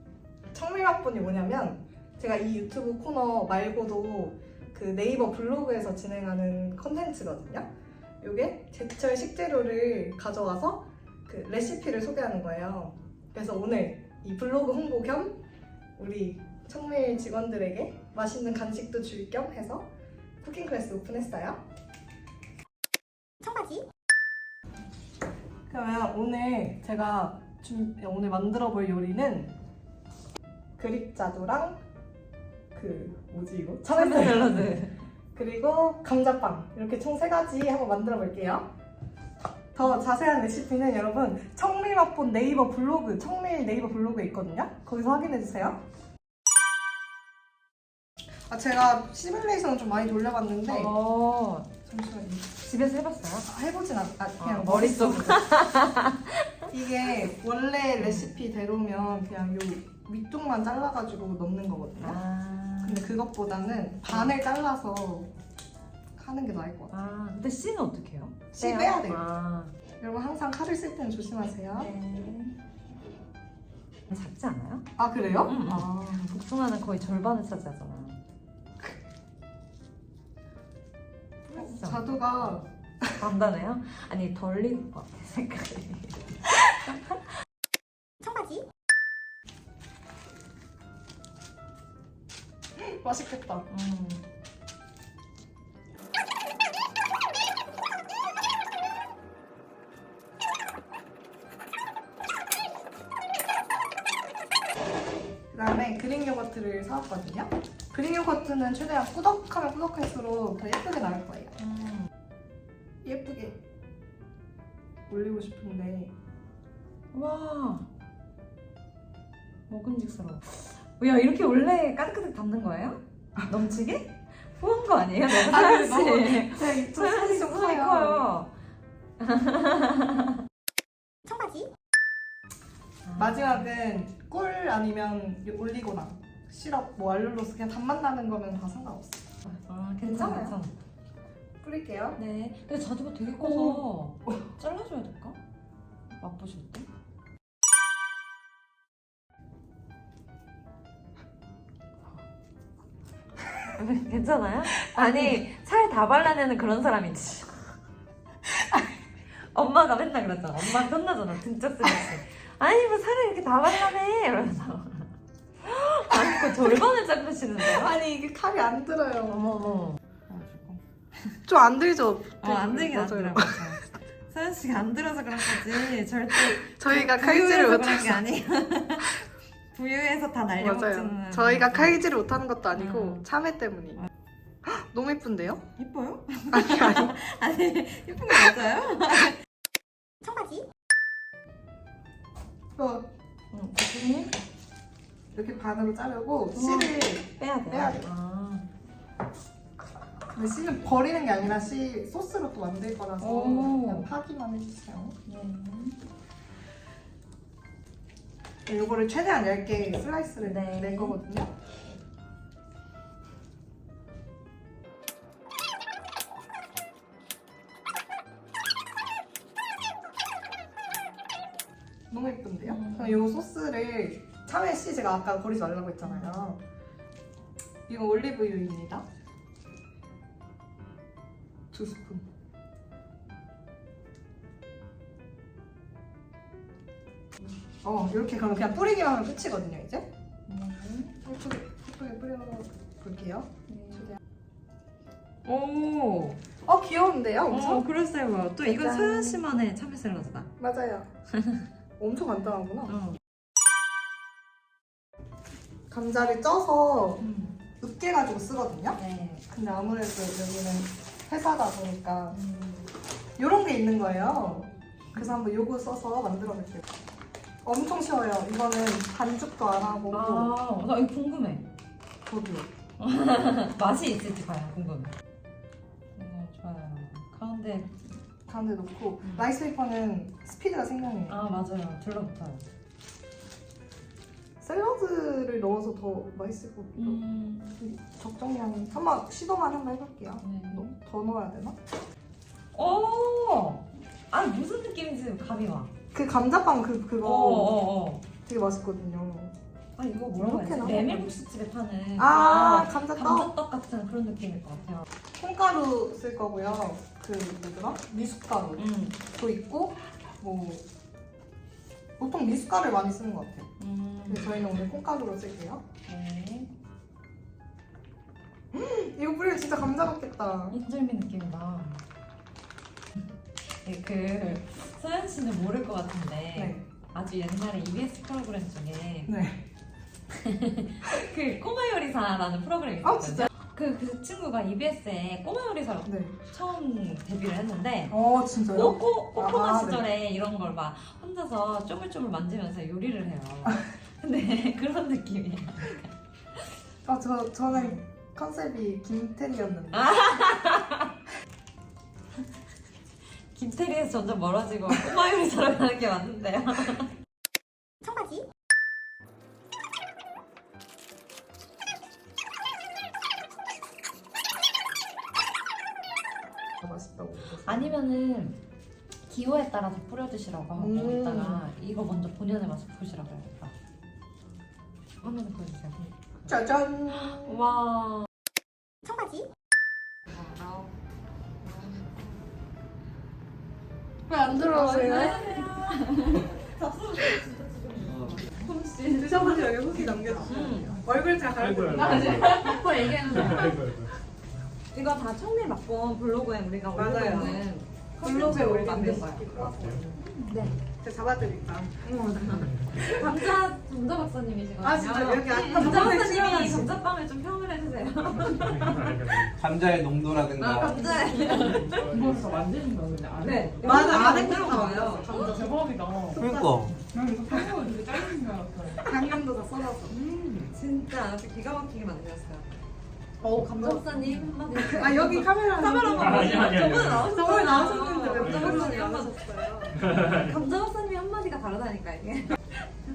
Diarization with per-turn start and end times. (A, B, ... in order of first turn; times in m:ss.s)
0:00.5-0:07.7 A
0:08.2-0:15.4 A
0:16.0-0:19.9 A
0:20.4-0:21.6 A
0:25.7-0:29.5 A
0:30.8-0:31.8 A
0:32.7-0:34.8 A
0:33.9-0:35.0 B
0:35.3-0:38.7 A
0:39.8-0:45.8 A
0:48.5-0:50.9 A
0:50.7-0:51.7 B
0:51.9-0:52.5 A
0:52.6-0:53.5 B
0:53.4-0:55.4 A
0:54.4-0:56.5 B
0:56.7-1:02.2 A
0:58.0-0:58.4 B
1:02.0-1:03.1 B
1:02.8-1:05.3 A
1:04.1-1:04.4 B
1:06.2-1:06.9 A
1:06.9-1:09.7 B
1:08.5-1:09.2 A
1:10.0-1:11.9 A
1:11.7-1:12.6 B
1:14.1-1:14.9 B
1:15.0-1:16.4 A
1:15.4-1:18.2 B
1:21.5-1:22.6 B
1:21.5-1:23.2 A
1:23.2-1:27.2 B
1:32.8-1:33.7 A
1:33.7-1:34.2 B
1:45.5-1:51.6 A
1:51.6-1:52.1 B
1:53.0-1:53.6 A
1:55.1-1:56.1 A
1:57.1-1:57.9 B
1:59.7-2:08.5 B
2:05.3-2:08.3 A
2:09.2-2:10.3 B
2:13.0-2:13.6 B
2:13.2-2:19.2 A
2:19.4-2:20.7 B
2:20.0-2:20.6 A
2:21.6-2:22.2 A
2:22.2-2:25.4 B
2:23.4-2:24.4 A
2:26.2-2:26.9 B
2:33.7-2:37.7 B
2:35.0-2:35.3 A
2:39.5-2:45.1 B
2:45.6-2:48.0 B
2:46.1-2:46.8 A
2:47.6-2:49.5 A
2:49.3-2:50.0 B
2:51.4-2:53.8 A
2:52.4-2:59.2 B
2:56.4-2:58.2 A
2:59.7-3:02.0 B
3:00.6-3:04.0 A
3:02.7-3:03.2 B
3:04.6-3:05.6 A
3:05.8-3:09.4 B
3:06.5-3:07.2 A
3:12.8-3:13.1 A
3:13.5-3:14.3 B
3:15.3-3:18.1 A
3:16.5-3:18.7 B
3:20.3-3:25.2 A
3:23.2-3:24.1 B
3:25.3-3:26.0 B
3:28.7-3:31.5 A
3:30.4-3:31.2 B
3:42.1-3:46.6 A
3:42.6-3:43.2 B
3:46.0-3:46.4 B
3:47.9-3:49.0 A
3:51.7-3:52.2 A
3:57.8-4:00.1 A
4:00.5-4:01.1 B
4:01.1-4:04.2 A
4:03.7-4:04.1 B
4:05.4-4:06.4 B
4:06.6-4:07.8 A
4:07.5-4:10.5 B
4:08.6-4:09.4 A
4:10.6-4:11.1 A
4:11.4-4:11.6 B
4:12.0-4:12.9 A
4:12.9-4:13.2 B
4:15.9-4:17.2 A
4:17.2-4:17.6 B
4:17.8-4:19.0 A
4:19.0-4:19.4 B
4:19.5-4:22.4 A
4:22.3-4:22.9 B
4:23.4-4:26.8 A
4:27.6-4:30.5 A
4:30.1-4:31.7 B
4:32.3-4:32.7 A
4:33.0-4:35.1 B
4:36.2-4:38.0 B
4:38.5-4:41.4 A
4:41.3-4:42.6 B
4:44.6-4:47.2 A
4:47.0-4:47.8 B
4:47.8-4:51.8 A
4:50.4-4:50.9 B
4:52.7-4:55.9 B
4:56.1-4:57.8 A
4:57.2-4:58.2 B
4:58.4-4:59.5 A
5:00.0-5:05.1 B
5:00.4-5:01.3 A
5:02.2-5:03.5 A
5:05.4-5:10.8 A
5:08.8-5:09.2 B
5:12.2-5:13.7 A
5:13.8-5:14.6 B
5:14.3-5:15.8 A
5:16.1-5:16.7 B
5:18.7-5:20.8 A
5:20.7-5:22.0 B
5:23.8-5:29.3 B
5:26.6-5:26.8 A
5:29.3-5:29.6 A
5:30.3-5:38.2 B
5:33.0-5:33.5 A
5:36.0-5:36.4 A
5:38.1-5:40.0 A
5:38.7-5:46.1 B
5:47.0-5:50.1 A
5:47.7-5:48.0 B
5:50.0-5:51.1 B
5:53.5-5:57.1 B
6:06.8-6:07.9 A
6:07.6-6:08.6 B
6:09.3-6:13.7 B
6:10.8-6:11.6 A
6:15.2-6:16.6 B
6:16.5-6:17.6 A
6:17.1-6:18.3 B
6:20.3-6:20.9 B
6:21.6-6:22.4 B
6:24.3-6:25.4 A
6:24.4-6:31.0 B
6:28.1-6:28.4 C
6:29.2-6:32.5 A
6:31.6-6:34.1 D
6:32.2-6:33.7 B
6:32.2-6:33.8 E
6:34.9-6:39.5 B
6:36.9-6:37.6 A
6:38.2-6:40.2 A
6:39.5-6:40.0 D
6:40.2-6:40.8 B
6:41.0-6:42.0 A
6:42.0-6:49.2 B
6:42.6-6:43.1 D
6:43.0-6:43.2 A
6:44.8-6:46.9 A
6:48.4-6:49.6 D
6:49.6-6:51.0 C
6:50.6-6:52.0 B
6:50.8-6:56.5 E
6:51.4-6:54.0 D
6:53.4-6:55.6 B
6:53.8-6:55.7 A
6:56.4-6:57.0 C
6:56.4-6:56.7 A
6:57.1-6:59.0 E
6:57.5-6:57.8 A
6:59.0-7:00.2 A
7:00.1-7:00.7 E
7:00.7-7:02.7 B
7:03.4-7:12.8 B
7:03.8-7:10.0 A
7:06.1-7:07.4 D
7:08.3-7:08.8 D
7:10.0-7:10.5 D